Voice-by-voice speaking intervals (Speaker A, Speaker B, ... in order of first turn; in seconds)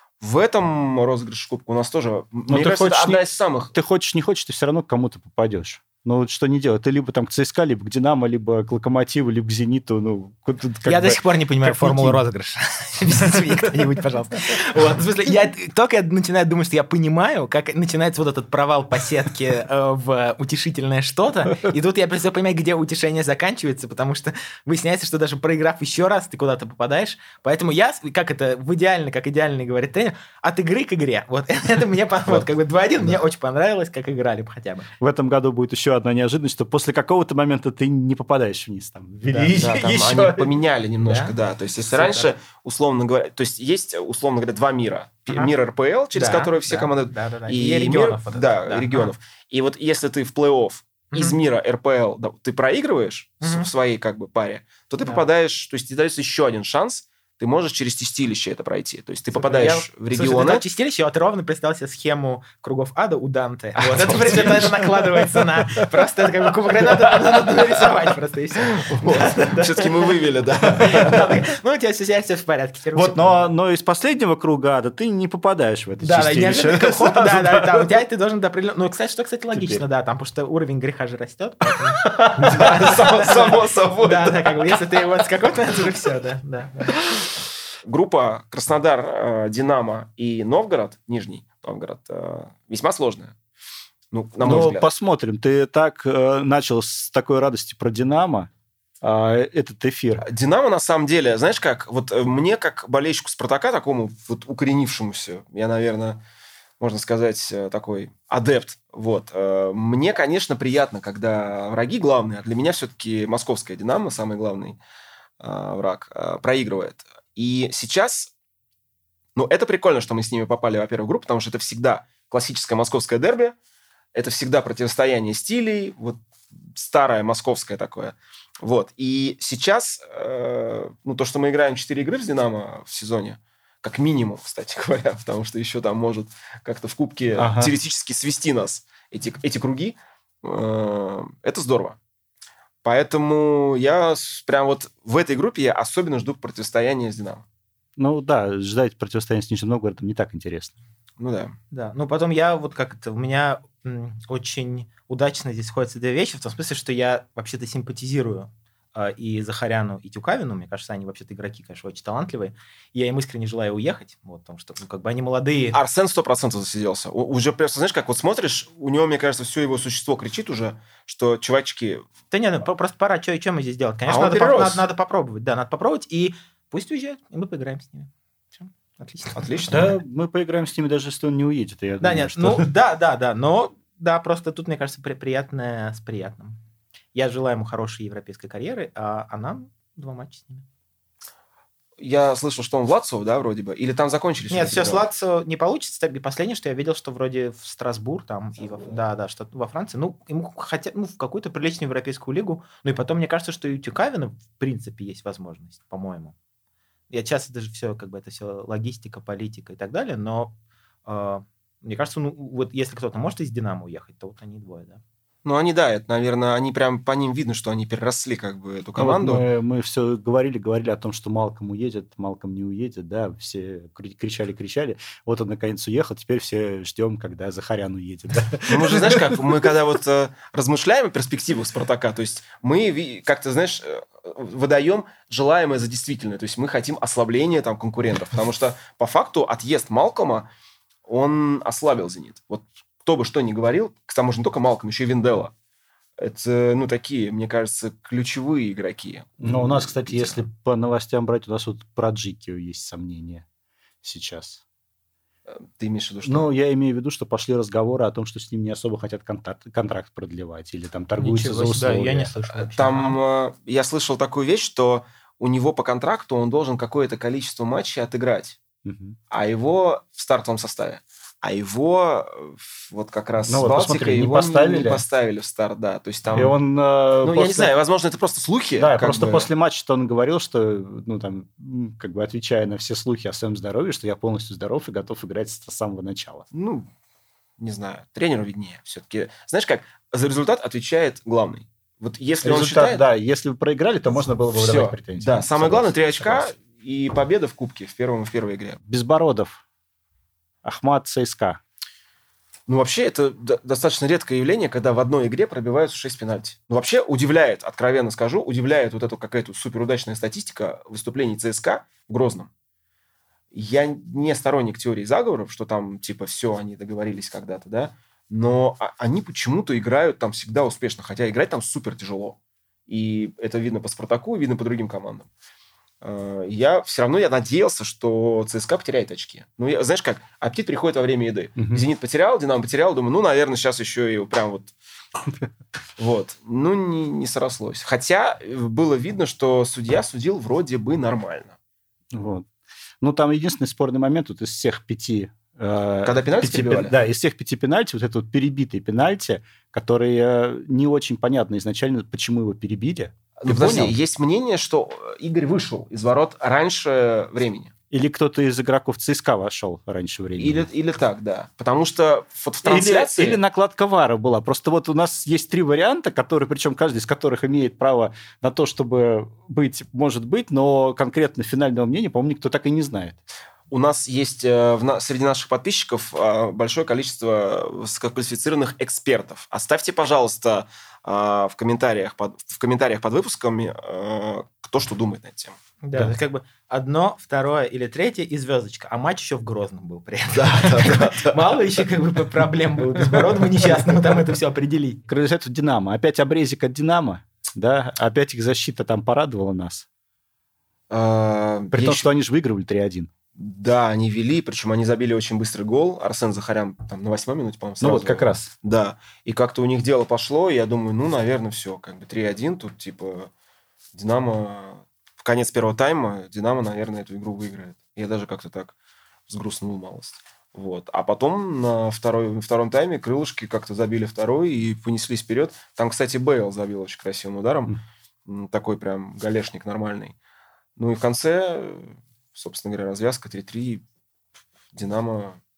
Speaker A: 0.2-3.7, 39.5-60.6, 63.8-64.8, 68.9-71.3, 82.5-84.8, 87.8-93.3, 94.1-94.9, 100.2-106.2, 106.8-114.8, 115.4-118.3, 119.3-123.6, 124.1-142.0, 142.8-147.4, 151.2-151.6, 165.7-172.1, 174.1-174.8, 179.4-179.9, 192.0-195.1, 215.4-219.4, 228.7-240.5, 241.1-245.5, 246.2-250.4, 255.5-256.5, 262.7-268.6, 269.3-276.6, 277.2-279.5, 286.5-286.9, 287.6-293.0, 294.6-298.8, 302.7-312.5, 313.5-325.3, 326.0-334.7, 336.0-341.6, 346.0-347.0, 353.4-357.7, 360.4-363.4, 373.7-385.6, 390.4-391.4, 400.9-402.1, 403.4-413.3, 413.9-418.7, 419.3-427.7, 428.3-430.2, 430.8-433.8, 434.7-435.4
Speaker B: 2.5-12.2, 35.0-40.5, 73.0-77.8, 79.5-79.8, 82.0-82.6, 94.4-98.5, 99.0-100.3, 137.4-137.7, 148.0-150.7, 179.7-182.7, 219.0-229.4, 249.4-253.4, 254.0-254.6, 256.2-262.3, 268.8-269.2, 273.5-275.0, 276.3-277.7, 278.8-286.5, 292.4-296.5, 298.8-299.6, 300.6-301.6, 331.6-331.8, 342.1-342.5, 343.0-353.9, 357.9-360.7, 362.6-373.2, 395.1-399.9, 401.7-403.1, 407.8-408.5
Speaker C: 10.9-34.9, 39.3-39.6, 41.0-41.4, 41.9-42.3, 46.1-49.1, 51.1-51.4, 53.4-53.7, 59.4-73.5, 76.0-87.0, 151.7-165.8, 172.3-179.8, 182.0-186.6, 187.1-190.7, 194.5-206.3, 207.1-210.5, 211.1-215.0, 261.2-263.2, 385.8-395.0